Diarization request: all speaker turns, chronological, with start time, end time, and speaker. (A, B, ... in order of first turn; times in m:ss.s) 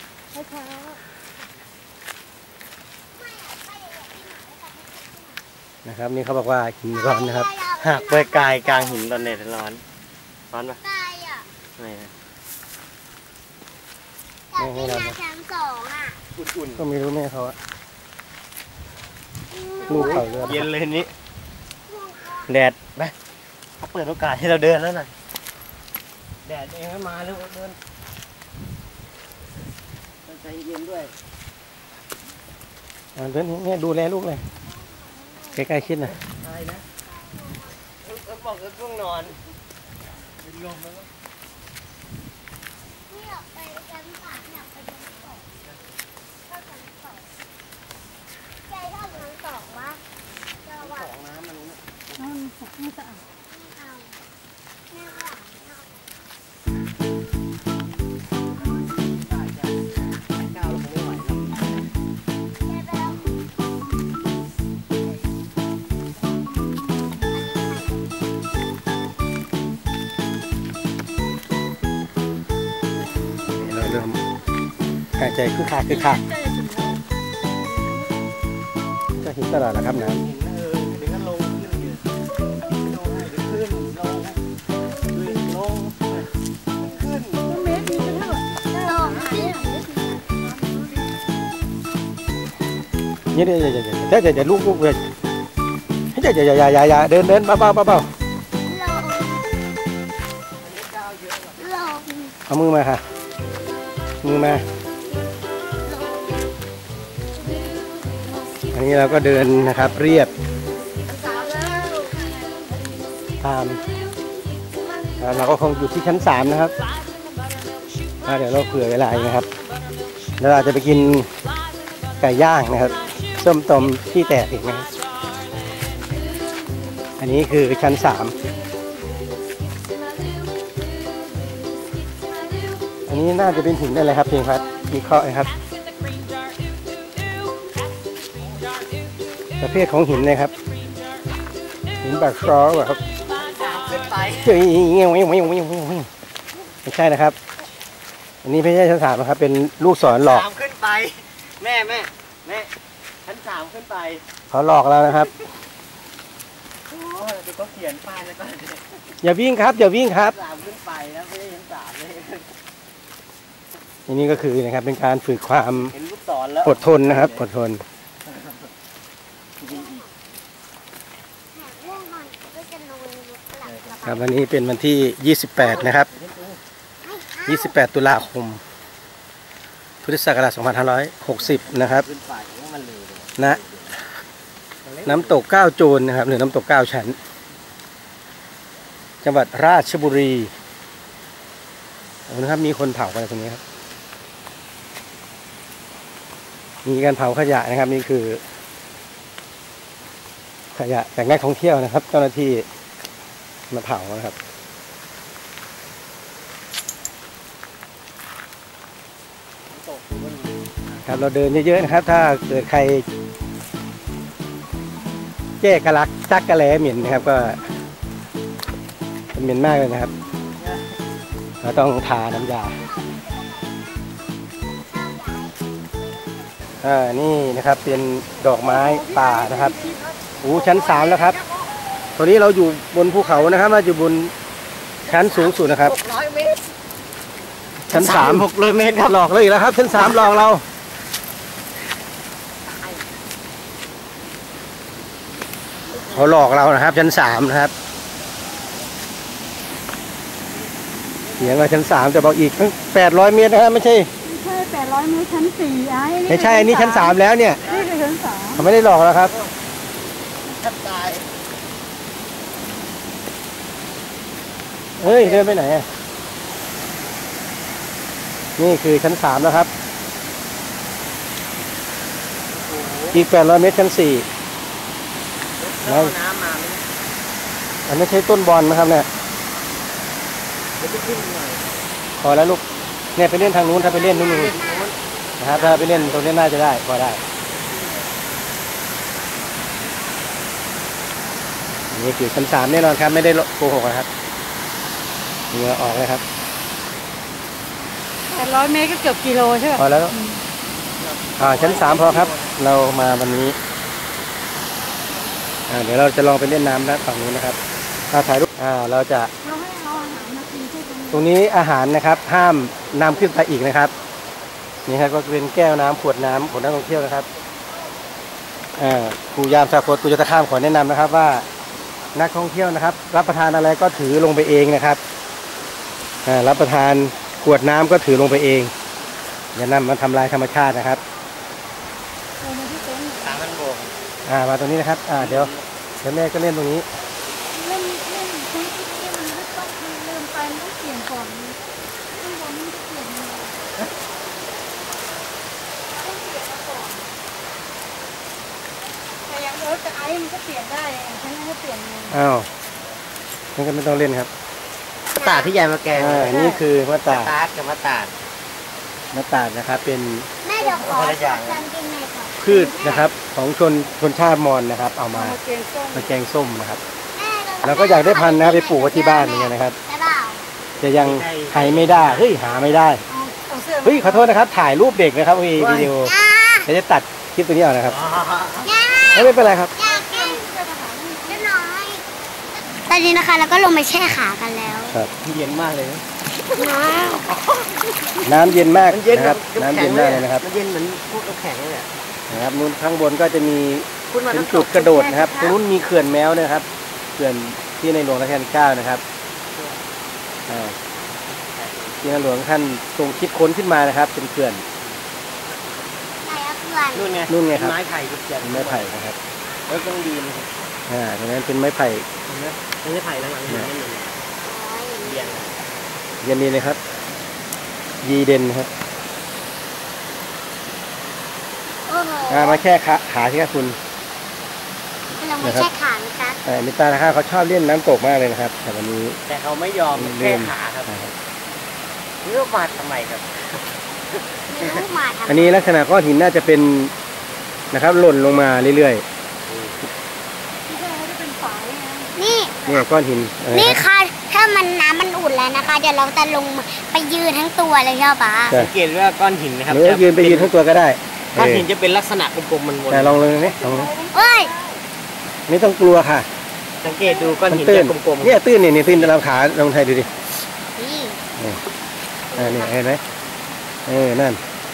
0:00.3-0:01.0 A
0:03.1-0:05.4 B
0:05.8-0:07.5 C
0:06.9-0:09.4 B
0:07.8-0:09.8 D
0:10.5-0:10.8 D
0:10.8-0:11.5 B
0:11.8-0:12.1 D
0:14.5-0:16.2 B
0:14.6-0:15.2 C
0:16.4-0:16.8 D
0:16.8-0:17.6 C
0:19.5-0:20.6 B
0:19.8-0:21.1 D
0:19.9-0:20.7 C
0:21.9-0:22.5 B
0:22.5-0:22.9 C
0:23.8-0:25.1 D
0:26.4-0:27.8 D
0:30.3-0:31.1 D
0:33.2-0:34.4 C
0:34.7-0:35.6 B
0:35.6-0:36.2 C
0:36.3-0:36.8 D
0:37.1-0:37.8 B
0:38.0-0:39.4 D
0:40.4-0:41.1 D
0:43.1-0:45.5 B
0:46.5-0:47.3 B
0:48.7-0:50.0 B
0:50.6-0:51.1 B
0:50.8-0:52.3 D
0:52.2-0:53.2 A
0:53.5-0:54.2 B
0:54.9-0:56.0 B
0:58.6-0:59.8 D
1:00.3-1:01.7 D
1:02.7-1:03.3 B
1:07.3-1:08.1 B
1:13.3-1:13.6 B
1:13.6-1:14.2 C
1:15.2-1:16.2 C
1:15.9-1:18.1 A
1:19.2-1:20.2 C
1:19.9-1:22.1 D
1:22.6-1:24.4 D
1:25.1-1:26.3 D
1:26.8-1:27.5 D
1:27.4-1:30.0 A
1:28.8-1:30.9 B
1:33.3-1:35.0 C
1:36.1-1:38.1 C
1:38.7-1:39.5 B
1:40.6-1:41.6 D
1:41.6-1:42.4 B
1:42.5-1:43.0 C
1:44.2-1:44.6 C
1:48.7-1:50.3 C
1:51.0-1:52.3 A
1:53.4-1:53.8 C
1:55.2-1:56.7 C
1:58.3-1:59.5 C
2:00.4-2:01.3 C
2:02.2-2:05.0 C
2:07.2-2:08.4 C
2:13.1-2:15.5 C
2:18.4-2:18.7 D
2:19.6-2:20.5 C
2:22.0-2:23.0 C
2:23.3-2:24.6 D
2:24.4-2:26.1 C
2:26.8-2:27.4 C
2:28.4-2:30.5 C
2:30.2-2:32.7 D
2:33.2-2:34.2 D
2:34.5-2:35.3 C
2:36.9-2:39.0 D
2:39.2-2:40.4 C
2:40.2-2:42.5 D
2:44.1-2:45.9 C
2:45.9-2:47.4 D
2:46.6-2:47.8 C
2:48.3-2:48.7 D
2:49.6-2:50.0 D
2:49.6-2:50.1 B
2:51.5-2:54.4 B
2:53.6-2:54.0 D
2:54.0-2:56.1 C
2:55.6-2:56.6 D
2:57.0-2:57.8 B
2:57.5-2:58.6 C
3:00.0-3:02.1 C
3:01.4-3:03.9 D
3:04.8-3:05.4 D
3:05.0-3:07.2 C
3:09.2-3:10.5 C
3:12.3-3:13.6 C
3:16.8-3:18.4 C
3:20.8-3:22.7 C
3:23.7-3:24.4 C
3:29.7-3:31.0 D
3:31.1-3:33.0 C
3:35.6-3:37.6 C
3:39.3-3:40.1 C
3:40.6-3:40.9 D
3:41.6-3:42.8 C
3:42.8-3:46.5 B
3:46.8-3:49.8 C
3:48.6-3:51.3 A
3:50.4-3:51.4 C
3:52.2-3:54.3 C
3:55.0-3:56.6 D
3:55.1-3:56.0 C
3:57.9-3:58.5 C
3:57.9-3:59.2 D
3:59.1-4:00.6 C
4:02.7-4:03.0 D
4:05.9-4:06.4 D
4:06.1-4:07.7 C
4:11.2-4:11.8 D
4:11.4-4:14.1 C
4:14.2-4:18.6 A
4:16.3-4:17.6 C
4:17.6-4:17.9 D
4:18.6-4:19.3 C
4:19.2-4:19.5 D
4:20.6-4:21.3 D
4:25.0-4:25.9 C
4:25.0-4:25.6 D
4:28.6-4:29.7 C
4:32.5-4:33.2 D
4:33.1-4:34.3 C
4:35.6-4:36.9 D
4:35.9-4:36.1 C
4:37.9-4:39.1 C
4:40.8-4:41.8 D
4:42.2-4:42.6 C
4:43.2-4:44.5 C
4:43.8-4:45.0 D
4:43.9-4:44.8 B
4:45.4-4:47.2 C
4:45.5-4:46.3 D
4:51.9-4:54.1 C
4:55.5-4:56.2 C
4:58.3-5:00.4 A
4:59.8-5:00.2 C
5:01.0-5:02.6 D
5:01.4-5:03.6 C
5:05.7-5:07.6 C
5:08.1-5:09.3 C
5:09.4-5:11.3 A
5:11.1-5:13.9 C
5:14.9-5:17.3 C
5:18.8-5:21.5 C
5:22.2-5:25.0 C
5:26.3-5:28.7 C
5:29.6-5:31.0 C
5:32.4-5:33.4 A
5:33.2-5:34.0 D
5:34.3-5:35.5 C
5:35.2-5:35.7 D
5:36.0-5:36.9 C
5:37.5-5:41.6 A
5:42.1-5:43.6 A
5:46.0-5:47.1 A
5:49.3-5:52.2 A
5:52.1-5:52.5 C
5:53.6-5:54.3 C
5:55.2-5:55.5 B
5:55.2-5:56.4 D
5:55.9-5:57.3 C
5:56.2-5:56.6 A
5:57.1-5:58.1 D
5:59.1-6:00.3 C
6:00.4-6:03.1 B
6:00.8-6:01.6 D
6:02.4-6:05.4 C
6:05.1-6:06.1 A
6:05.9-6:06.8 C
6:07.1-6:10.4 B
6:07.6-6:09.8 C
6:10.8-6:13.0 C
6:11.0-6:12.4 D
6:13.1-6:14.3 A
6:13.8-6:16.1 C
6:15.6-6:15.9 D
6:16.0-6:16.7 B
6:16.7-6:18.0 C
6:17.8-6:18.7 D
6:18.6-6:20.5 B
6:19.1-6:19.7 C
6:19.8-6:21.5 A
6:21.3-6:25.0 B
6:25.2-6:28.3 D
6:26.6-6:27.3 B
6:28.2-6:30.4 C
6:28.9-6:31.9 D
6:32.3-6:36.7 C
6:34.1-6:35.6 D
6:37.2-6:39.0 C
6:39.5-6:39.8 D
6:40.5-6:40.8 C
6:41.5-6:42.0 D
6:42.0-6:44.6 C
6:44.8-6:46.0 D
6:46.2-6:47.1 B
6:46.9-6:49.0 D
6:47.3-6:47.8 C
6:48.4-6:49.2 C
6:49.7-6:50.6 D
6:50.9-6:52.1 C
6:52.3-6:54.2 D
6:54.4-6:55.4 B
6:55.0-6:55.5 D
6:56.2-6:56.8 C
6:58.0-6:58.7 C
7:01.9-7:02.6 B
7:02.3-7:03.8 C
7:05.2-7:06.4 B
7:05.4-7:05.7 C
7:06.4-7:09.2 C
7:09.3-7:10.9 D
7:10.0-7:11.1 C
7:12.2-7:14.8 D
7:14.5-7:15.7 B
7:15.3-7:16.9 C
7:17.7-7:19.0 C
7:19.5-7:19.9 D
7:20.7-7:22.8 A
7:22.2-7:22.6 B
7:22.7-7:23.8 C
7:23.5-7:28.7 B
7:28.5-7:30.5 D
7:29.7-7:31.7 C
7:31.4-7:33.3 D
7:32.9-7:33.9 C
7:33.5-7:34.8 A
7:34.1-7:34.5 B
7:35.5-7:36.3 C
7:36.8-7:39.1 D
7:37.1-7:37.4 A
7:37.5-7:40.1 C
7:40.8-7:41.2 B
7:42.3-7:42.7 D
7:42.3-7:43.0 C
7:43.9-7:44.4 C